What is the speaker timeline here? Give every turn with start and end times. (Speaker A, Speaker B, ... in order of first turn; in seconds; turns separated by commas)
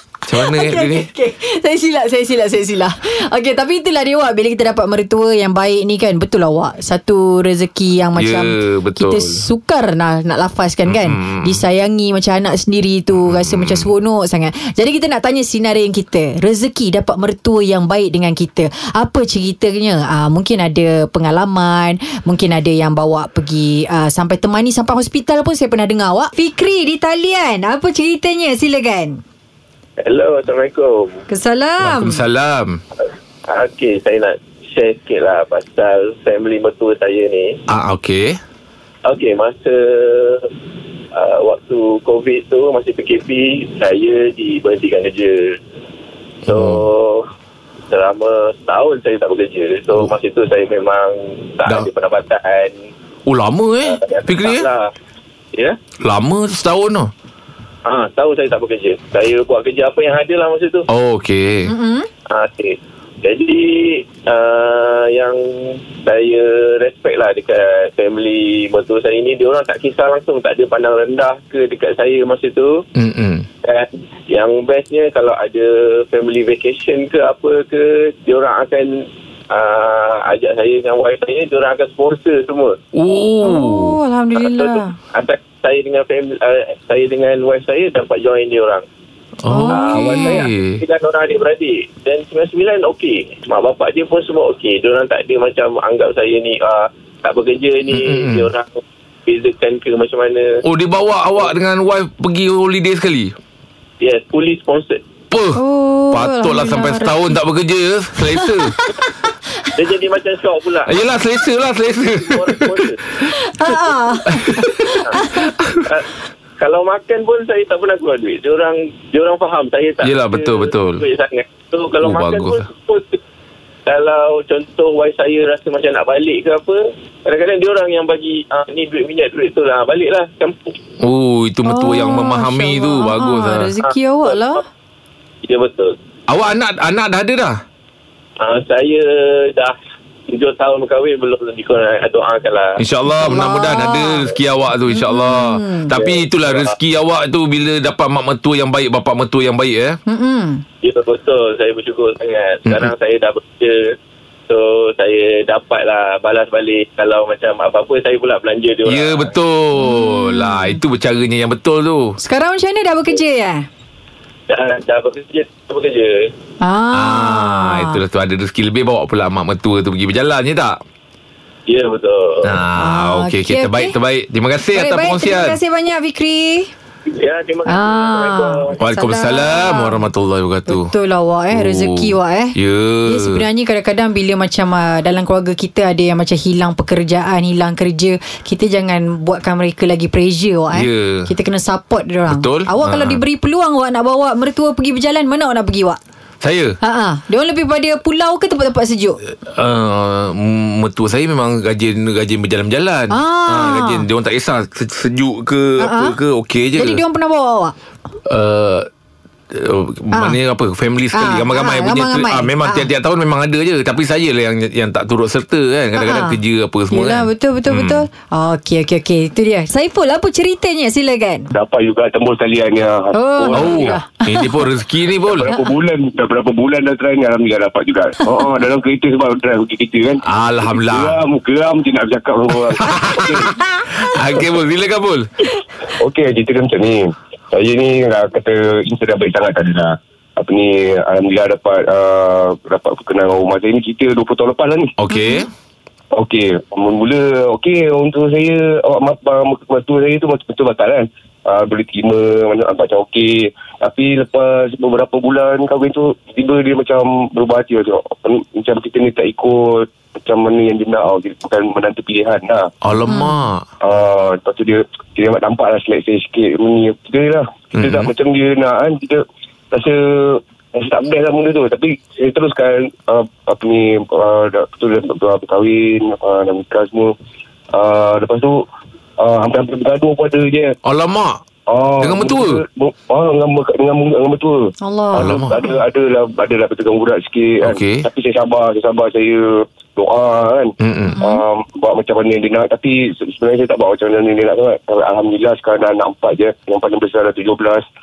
Speaker A: 0.3-1.1, Speaker B: 0.4-29.2, Speaker A: 8.2-9.4, Speaker A: 10.9-11.6, Speaker A: 13.2-13.9, Speaker C: 30.0-31.2, Speaker B: 31.3-32.2, Speaker A: 31.8-32.8, Speaker C: 33.5-37.6, Speaker A: 37.7-38.4, Speaker C: 39.0-40.5, Speaker C: 41.1-45.6, Speaker A: 46.5-46.9, Speaker C: 46.5-47.3, Speaker C: 47.9-52.8, Speaker A: 53.3-54.7, Speaker C: 53.8-54.9, Speaker A: 56.0-57.1, Speaker C: 57.9-60.9, Speaker A: 60.9-61.7, Speaker B: 61.7-62.1, Speaker C: 62.3-72.8, Speaker A: 73.0-73.5, Speaker C: 73.6-82.8, Speaker A: 82.9-84.0, Speaker B: 83.4-84.9, Speaker C: 84.4-88.8, Speaker A: 89.4-90.8, Speaker B: 89.5-90.5, Speaker C: 89.7-100.6, Speaker A: 97.9-98.5, Speaker A: 100.6-103.4, Speaker C: 104.0-105.0, Speaker A: 105.3-108.7, Speaker B: 105.5-107.3, Speaker B: 108.3-108.9, Speaker C: 109.7-111.1, Speaker A: 110.9-115.9, Speaker C: 112.2-113.0, Speaker B: 113.3-115.5, Speaker C: 114.9-115.2, Speaker C: 115.8-123.2, Speaker A: 120.0-121.0, Speaker A: 122.0-122.7, Speaker C: 123.9-130.7, Speaker A: 131.0-133.7, Speaker B: 131.7-134.6, Speaker C: 135.4-135.9, Speaker A: 136.3-137.6, Speaker C: 138.4-139.8, Speaker C: 140.3-142.8, Speaker A: 142.8-150.0, Speaker B: 143.1-144.2, Speaker B: 144.9-145.9, Speaker C: 145.9-146.7, Speaker B: 150.1-150.6, Speaker C: 150.8-154.0, Speaker A: 152.7-152.9, Speaker C: 154.5-159.3, Speaker A: 158.9-162.2, Speaker B: 159.8-160.8, Speaker B: 162.2-163.7, Speaker C: 164.5-166.3, Speaker B: 166.6-168.0, Speaker A: 166.9-170.8, Speaker C: 171.7-172.6, Speaker A: 172.4-175.6, Speaker B: 172.8-174.0, Speaker B: 174.7-176.7, Speaker C: 177.1-178.8, Speaker B: 177.7-180.0, Speaker A: 178.8-180.9, Speaker B: 180.7-196.0, Speaker A: 181.5-183.4, Speaker A: 190.7-191.3, Speaker A: 192.3-193.2, Speaker A: 196.4-196.8, Speaker B: 196.8-199.2, Speaker A: 199.3-207.0, Speaker B: 203.1-204.1, Speaker B: 205.8-206.2, Speaker B: 206.8-207.8, Speaker A: 208.3-208.9, Speaker A: 209.5-218.1, Speaker B: 211.1-212.9, Speaker B: 216.0-216.4, Speaker B: 216.9-221.5, Speaker D: 221.5-224.0, Speaker B: 223.1-224.7, Speaker A: 223.5-225.5, Speaker D: 225.2-233.6, Speaker A: 230.3-231.2, Speaker A: 232.5-235.3, Speaker D: 236.0-244.9, Speaker A: 245.0-245.5, Speaker B: 245.1-245.5, Speaker D: 246.1-262.7, Speaker A: 262.8-263.7, Speaker B: 263.1-263.4, Speaker D: 263.8-277.1, Speaker A: 267.8-268.1, Speaker D: 277.7-278.6, Speaker D: 279.2-280.8, Speaker A: 280.9-281.4, Speaker D: 281.7-297.9, Speaker A: 282.0-282.6, Speaker B: 284.8-285.4, Speaker A: 285.1-285.7, Speaker A: 287.6-288.1, Speaker A: 290.8-291.2, Speaker B: 291.2-291.4